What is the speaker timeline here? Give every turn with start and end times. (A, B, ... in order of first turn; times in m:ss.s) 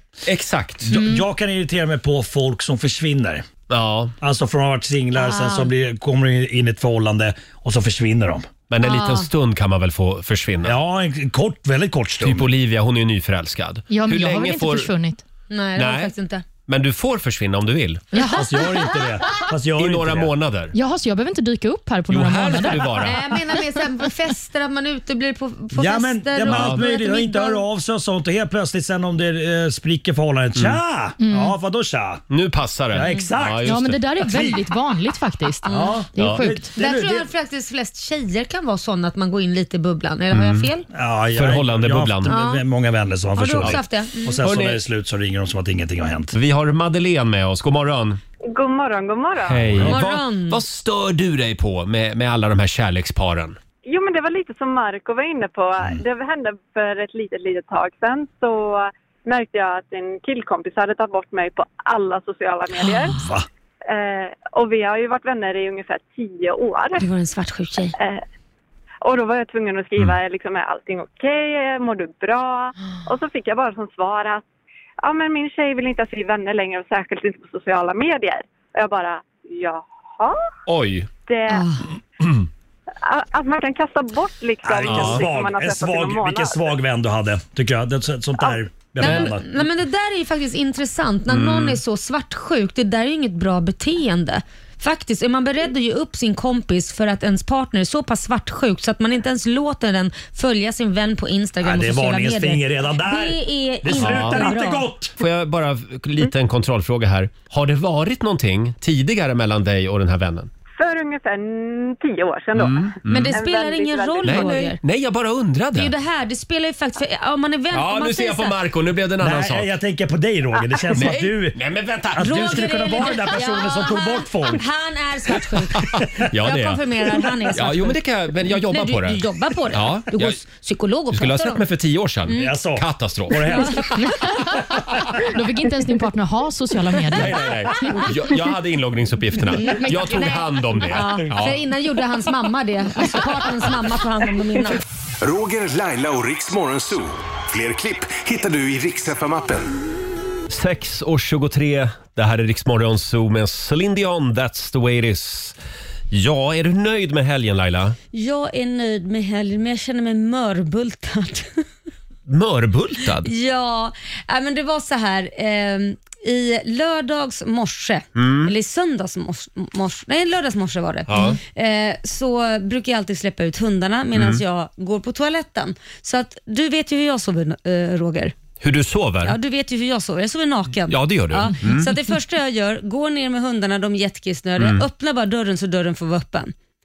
0:00.2-0:00.9 A
0:00.9-0:03.4 B
0:00.9-0:01.2 C
0:03.7-0:04.1 A
0:04.2-0:08.5 B
0:05.2-0:05.7 D
0:08.7-0:10.8 A
0:08.8-0:09.3 D
0:10.6-0:12.5 B
0:12.2-0:14.9 A
0:13.9-0:15.2 C
0:15.5-0:16.4 D
0:15.8-0:16.1 A
0:16.7-0:18.2 A
0:18.1-0:18.7 C
0:18.3-0:20.3 B
0:19.8-0:20.7 A
0:20.7-0:22.9 C
0:22.1-0:23.2 A
0:23.0-0:27.6 D
0:25.7-0:32.2 B
0:26.5-0:26.8 A
0:31.2-0:31.5 C
0:32.3-0:34.2 A
0:32.9-0:33.7 B
0:33.1-0:36.7 C
0:35.6-0:36.0 D
0:35.7-0:37.3 B
0:36.2-0:36.4 A
0:36.8-0:40.9 D
0:40.3-0:40.7 A
0:40.9-0:46.3 B
0:41.3-0:42.3 A
0:42.3-0:42.6 D
0:43.3-0:44.4 D
0:44.4-0:44.8 A
0:46.3-0:48.2 A
0:48.5-0:49.7 E
0:49.4-0:53.6 A
0:49.6-0:50.0 B
0:49.8-0:50.6 D
0:53.8-1:03.2 E
1:02.9-1:03.4 B
1:03.9-1:07.1 E
1:07.0-1:07.9 D
1:08.0-1:08.2 E
1:09.0-1:14.4 E
1:15.0-1:20.4 E
1:20.7-1:21.1 A
1:21.3-1:21.7 E
1:21.5-1:21.8 D
1:23.0-1:26.7 E
1:24.6-1:29.5 B
1:24.8-1:25.3 A
1:29.0-1:44.9 D
1:29.0-1:29.4 A
1:31.3-1:31.8 A
1:41.6-1:45.1 B
1:44.0-1:44.5 A
1:45.2-1:50.5 A
1:50.8-1:54.6 E
1:52.6-1:53.4 A
1:53.1-1:54.8 D
1:54.2-1:55.9 A
1:55.7-1:58.6 D
1:57.7-1:59.7 A
1:59.2-2:01.6 B
2:00.9-2:03.2 A
2:02.1-2:04.6 B
2:02.2-2:11.6 D
2:05.8-2:06.8 A
2:07.5-2:10.4 A
2:11.1-2:14.2 A
2:12.2-2:12.6 D
2:12.3-2:14.0 B
2:15.2-2:17.4 C
2:17.1-2:21.6 A
2:19.6-2:20.3 C
2:20.1-2:24.8 D
2:25.2-2:29.7 F
2:30.5-2:35.6 A
2:36.1-2:38.0 A
2:38.1-2:41.6 D
2:42.3-2:43.3 A
2:43.2-2:58.3 D
2:48.2-2:48.5 A
2:51.1-2:51.4 A
2:54.2-2:54.4 A
2:58.6-2:59.4 A
2:59.2-3:06.5 D
3:00.9-3:02.0 A
3:04.6-3:04.8 A